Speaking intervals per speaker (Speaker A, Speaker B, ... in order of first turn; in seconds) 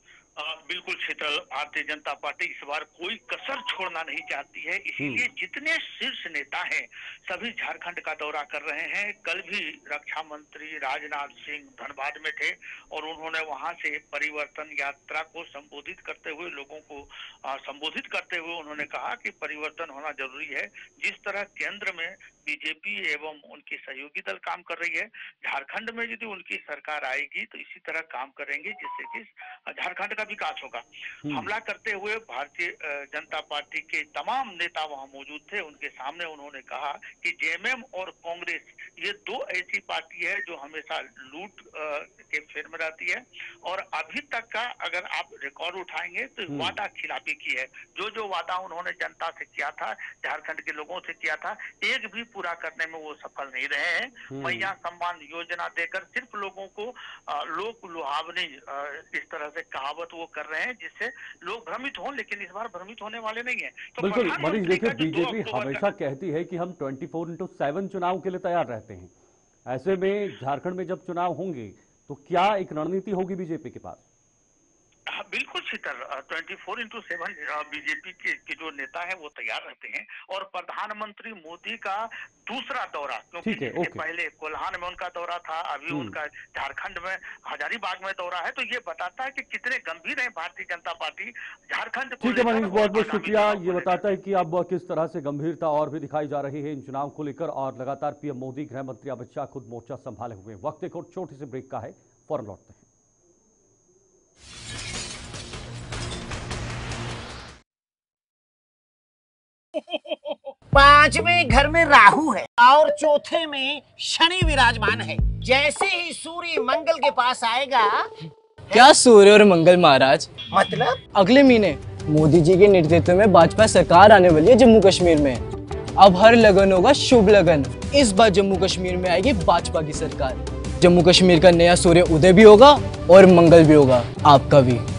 Speaker A: 0.4-65.9, 75.1-94.0
Speaker B: 46.5-46.8, 54.3-54.7, 64.0-69.1, 69.7-74.0, 83.4-84.0, 92.2-102.9
Speaker C: 110.7-118.1, 118.7-119.0, 120.5-121.0
Speaker D: 118.8-120.3, 121.1-125.4, 126.0-134.9